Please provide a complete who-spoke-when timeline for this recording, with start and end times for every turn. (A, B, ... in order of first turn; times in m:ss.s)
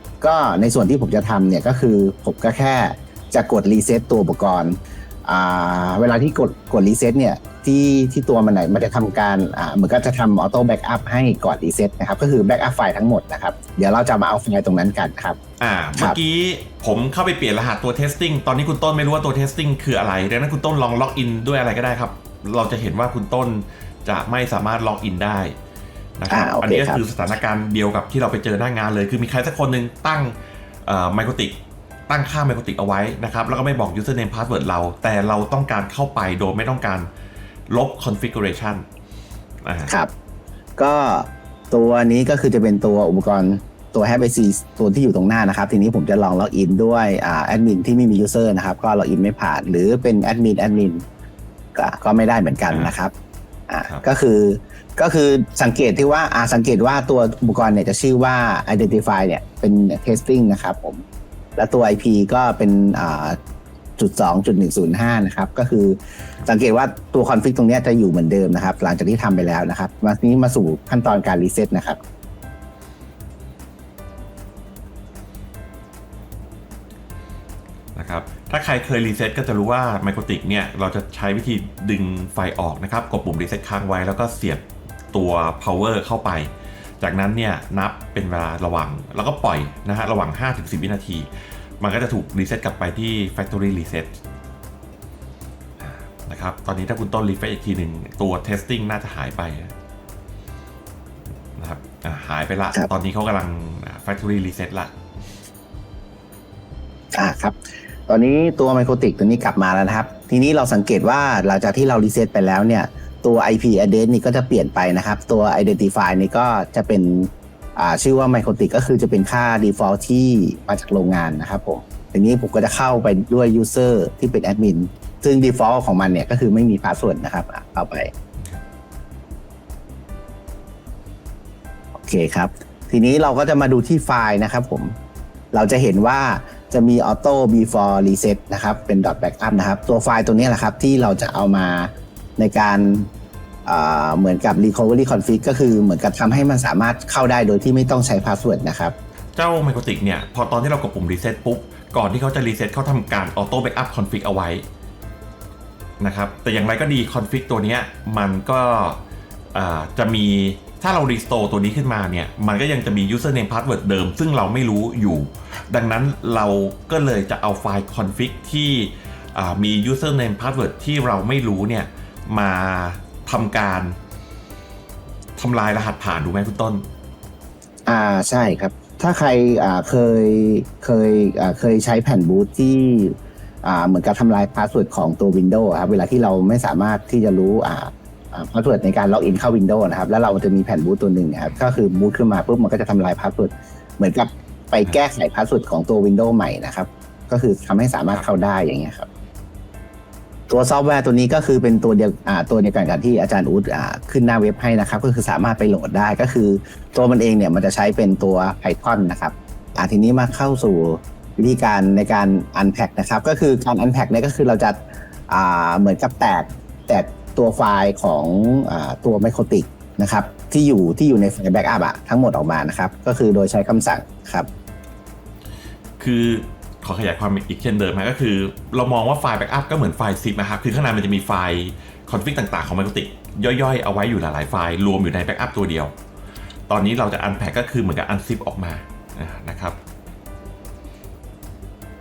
0:00.2-0:15.4 A
0:15.6-0:25.5 B
0:26.2-0:30.3 B
0:26.3-0:27.0 A
0:30.8-0:31.6 B
0:32.1-0:37.1 B
0:37.7-0:38.8 B
0:39.6-0:39.9 B
0:40.8-0:51.0 A
0:51.7-0:53.1 A
0:53.7-1:01.0 A
1:01.6-1:03.4 A
1:04.0-1:12.0 A
1:18.0-1:31.3 B
1:31.8-1:34.2 B
1:35.8-1:39.7 B
1:41.6-1:44.9 B
1:47.1-1:47.6 A
1:48.1-2:08.1 A
2:12.0-2:14.9 A
2:15.5-2:23.1 A
2:23.6-2:28.9 A
2:29.3-2:34.6 B
2:36.0-2:39.0 B
2:39.5-2:54.0 B
2:55.4-2:56.8 B
2:57.9-3:19.1 A
3:20.5-3:34.8 A
3:35.3-3:44.5 A
3:46.0-3:55.9 B
3:56.7-3:59.8 B